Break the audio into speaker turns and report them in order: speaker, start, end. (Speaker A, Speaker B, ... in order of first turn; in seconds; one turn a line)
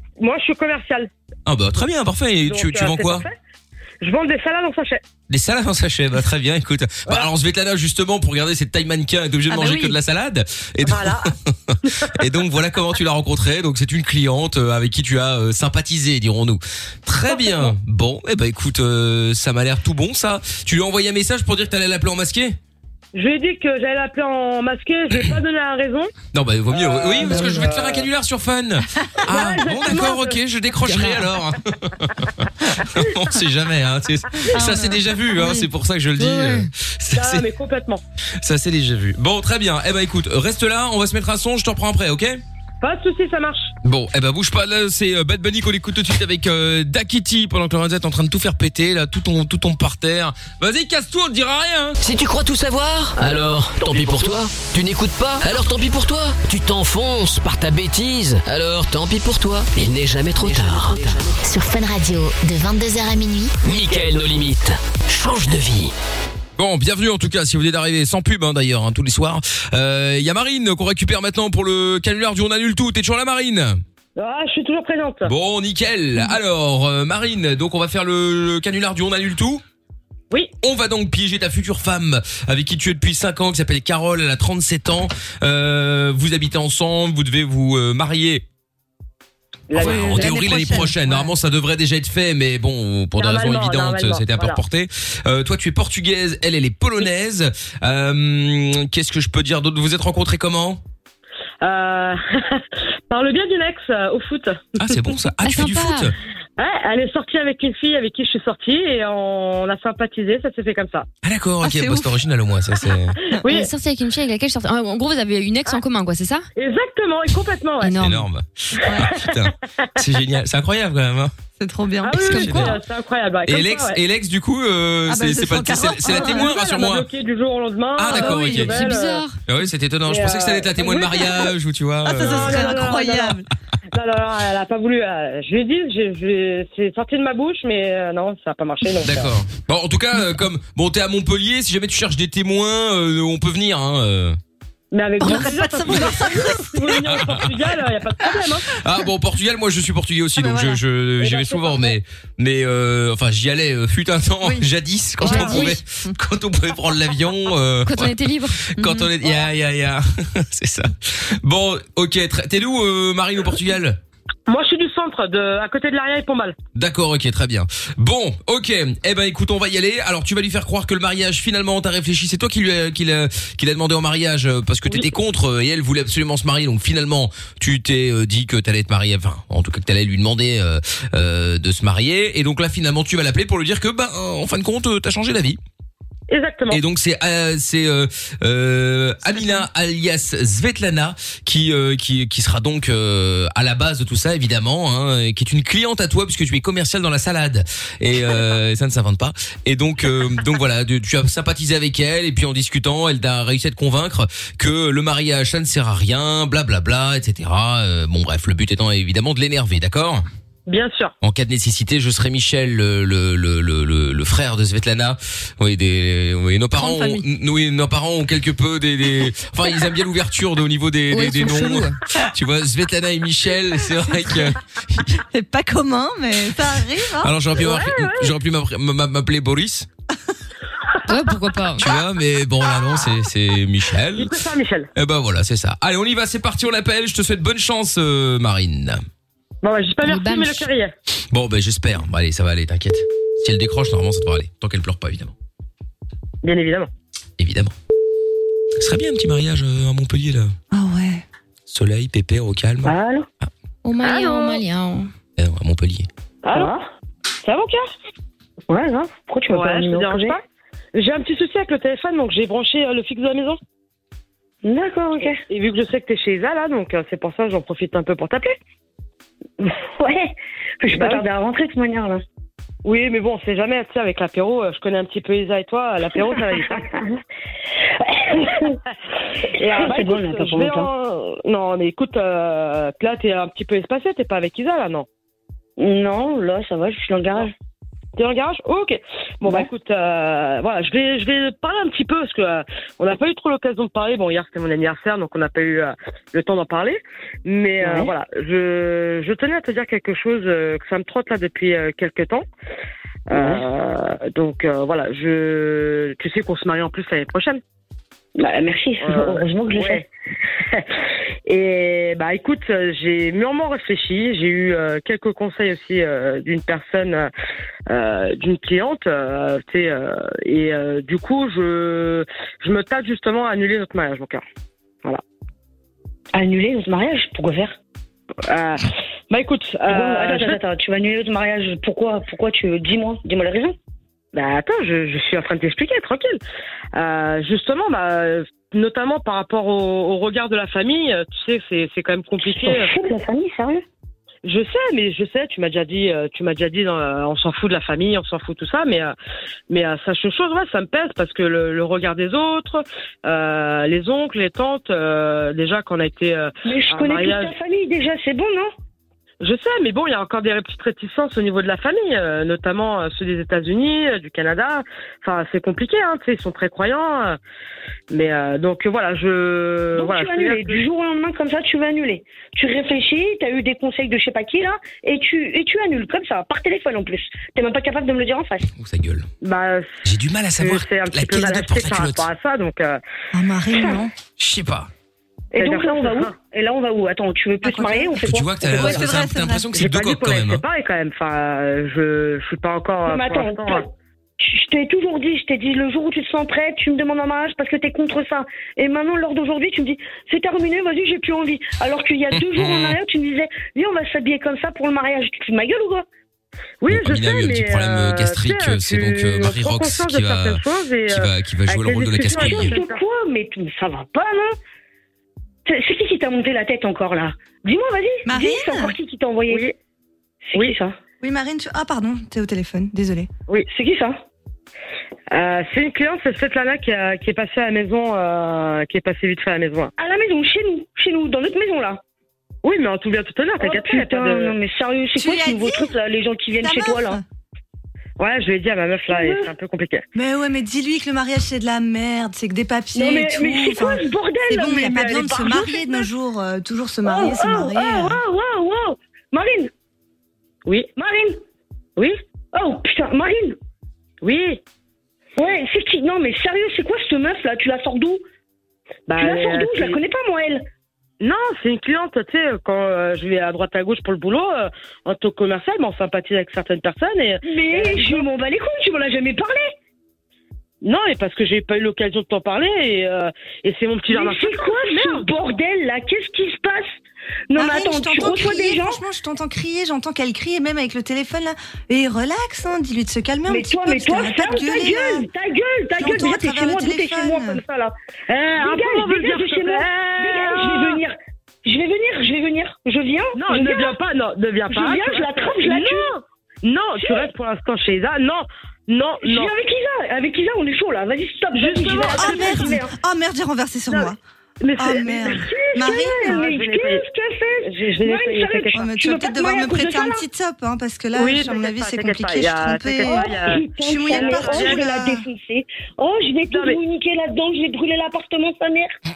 Speaker A: 0.2-1.1
Speaker B: 1.4-3.3
Speaker A: 2.5-3.3
Speaker A: 4.0-5.0
Speaker B: 5.3-22.6
Speaker C: 9.6-9.9
Speaker A: 10.8-11.3
Speaker A: 17.3-17.7
Speaker A: 23.1-26.1
Speaker B: 26.3-37.5
Speaker A: 26.7-28.1
Speaker C: 27.3-27.6
Speaker A: 29.3-30.4
Speaker D: 30.8-31.2
Speaker C: 34.5-35.7
Speaker D: 36.2-36.7
Speaker A: 37.1-38.0
Speaker B: 38.4-42.4
Speaker A: 42.8-43.7
Speaker B: 43.8-52.0
Speaker E: 52.0-61.3
Speaker F: 61.4-63.5
Speaker E: 63.6-65.9
Speaker B: 66.6-73.8
Speaker A: 74.2-75.3
Speaker B: 75.3-79.6
Speaker B: 80.6-88.4
Speaker A: 89.7-90.4
Speaker C: 89.7-91.3
Speaker B: 89.7-100.8
Speaker A: 93.2-94.6
Speaker A: 101.6-104.9
Speaker B: 104.8-106.1
Speaker D: 105.4-106.1
Speaker A: 106.6-111.1
Speaker B: 111.2-113.2
Speaker C: 111.6-112.2
Speaker A: 113.4-113.7
Speaker D: 113.5-116.5
Speaker A: 116.5-118.0
Speaker D: 117.8-118.3
Speaker B: 118.0-121.3
Speaker C: 121.6-122.8
Speaker A: 122.0-124.0
Speaker B: 122.2-122.8
Speaker B: 123.5-127.1
Speaker C: 125.0-126.5
Speaker A: 126.0-129.2
Speaker B: 128.0-128.8
Speaker D: 128.1-129.4
Speaker B: 129.5-132.9
Speaker A: 130.1-131.3
Speaker C: 132.0-133.5
Speaker A: 132.2-133.4
Speaker A: 133.9-139.3
Speaker B: 139.0-144.4
Speaker A: 144.9-148.7
Speaker C: 145.2-147.2
Speaker B: 147.0-147.6
Speaker B: 148.7-164.0
Speaker C: 150.4-150.8
Speaker A: 151.2-151.9
Speaker C: 154.4-154.7
Speaker D: 155.2-155.7
Speaker C: 155.2-156.1
Speaker D: 157.9-158.7
Speaker C: 158.8-159.1
Speaker A: 164.5-166.6
Speaker B: 166.7-185.6
Speaker A: 186.3-186.8
Speaker B: 186.7-210.2
Speaker A: 210.7-211.1
Speaker B: 211.2-225.2
Speaker C: 216.8-217.3
Speaker D: 221.1-222.0
Speaker C: 225.3-227.3
Speaker B: 227.2-229.9
Speaker A: 227.6-228.3
Speaker D: 231.1-231.9
Speaker B: 231.8-234.3
Speaker A: 234.2-234.9
Speaker B: 234.9-239.0
Speaker A: 239.6-240.9
Speaker D: 240.0-240.7
Speaker B: 241.3-245.3
Speaker A: 246.4-246.9
Speaker B: 247.4-247.7
Speaker B: 248.8-250.5
Speaker C: 250.7-251.2
Speaker B: 251.7-252.9
Speaker G: 252.8-253.3
Speaker D: 253.8-255.1
Speaker A: 254.0-254.6
Speaker B: 255.4-256.1
Speaker A: 256.4-256.7
Speaker G: 256.5-256.9
Speaker A: 257.4-257.9
Speaker G: 258.7-260.4
Speaker A: 259.5-260.4
Speaker A: 260.9-263.6
Speaker G: 264.6-265.4
Speaker A: 265.5-268.6
Speaker G: 269.6-272.2
Speaker A: 270.9-271.2
Speaker A: 272.8-276.8
Speaker G: 276.2-277.0
Speaker G: 278.0-278.8
Speaker G: 279.5-280.9
Speaker A: 279.6-285.1
Speaker G: 285.8-287.5
Speaker A: 288.2-302.4
Speaker G: 289.4-289.7
Speaker G: 297.8-298.1
Speaker A: 303.3-307.6
Speaker G: 303.3-303.7
Speaker G: 308.4-310.1
Speaker A: 309.0-310.0
Speaker A: 311.5-317.3
Speaker A: 317.9-324.4
Speaker G: 326.3-327.8
Speaker A: 328.4-330.6
Speaker G: 329.9-333.8
Speaker A: 334.3-336.4
Speaker A: 336.9-343.0
Speaker G: 342.4-343.8
Speaker A: 344.4-349.1
Speaker A: 349.7-357.5
Speaker G: 356.6-358.7
Speaker A: 359.4-367.4
Speaker A: 368.1-370.8
Speaker G: 369.9-378.7
Speaker B: 378.8-379.3
Speaker A: 379.4-380.0
Speaker B: 380.0-382.3
Speaker A: 380.6-383.0
Speaker C: 383.3-384.1
Speaker B: 384.4-384.9
Speaker A: 385.5-386.4
Speaker G: 385.5-389.1
Speaker C: 387.6-389.7
Speaker B: 388.2-390.6
Speaker A: 389.7-393.8
Speaker G: 393.1-406.1
Speaker B: 402.4-402.9
Speaker A: 406.8-413.0
Speaker B: 406.9-412.7
Speaker G: 412.2-414.6
Speaker G: 415.7-419.7
Speaker C: 418.3-418.9
Speaker A: 419.5-419.7
Speaker G: 420.4-421.0
Speaker C: 421.2-423.3
Speaker G: 423.7-424.2
Speaker A: 425.3-429.9
Speaker G: 430.0-432.0
Speaker A: 432.6-434.6
Speaker G: 433.6-437.2
Speaker C: 435.2-435.9
Speaker C: 436.6-437.2
Speaker A: 438.2-440.0
Speaker G: 439.1-439.5
Speaker C: 440.1-448.2
Speaker G: 442.9-446.1
Speaker G: 447.0-449.7
Speaker G: 450.9-451.4
Speaker G: 452.5-453.6
Speaker A: 454.2-454.6
Speaker G: 455.4-458.2
Speaker A: 459.1-460.0
Speaker G: 459.1-460.7
Speaker A: 461.2-468.3
Speaker G: 467.4-469.7
Speaker A: 470.8-475.3
Speaker G: 474.1-476.9
Speaker G: 477.5-479.0
Speaker C: 477.6-485.3
Speaker G: 483.5-494.0
Speaker C: 486.0-487.6
Speaker A: 488.3-491.0
Speaker A: 493.3-499.5
Speaker G: 494.7-496.1
Speaker G: 497.0-497.3
Speaker G: 499.2-502.9
Speaker A: 501.5-502.8
Speaker C: 502.1-504.2
Speaker A: 503.9-507.1
Speaker C: 504.8-506.4
Speaker G: 504.9-510.2
Speaker A: 507.6-508.9
Speaker C: 508.7-515.3
Speaker A: 511.1-515.0
Speaker G: 513.0-519.0
Speaker A: 516.5-516.8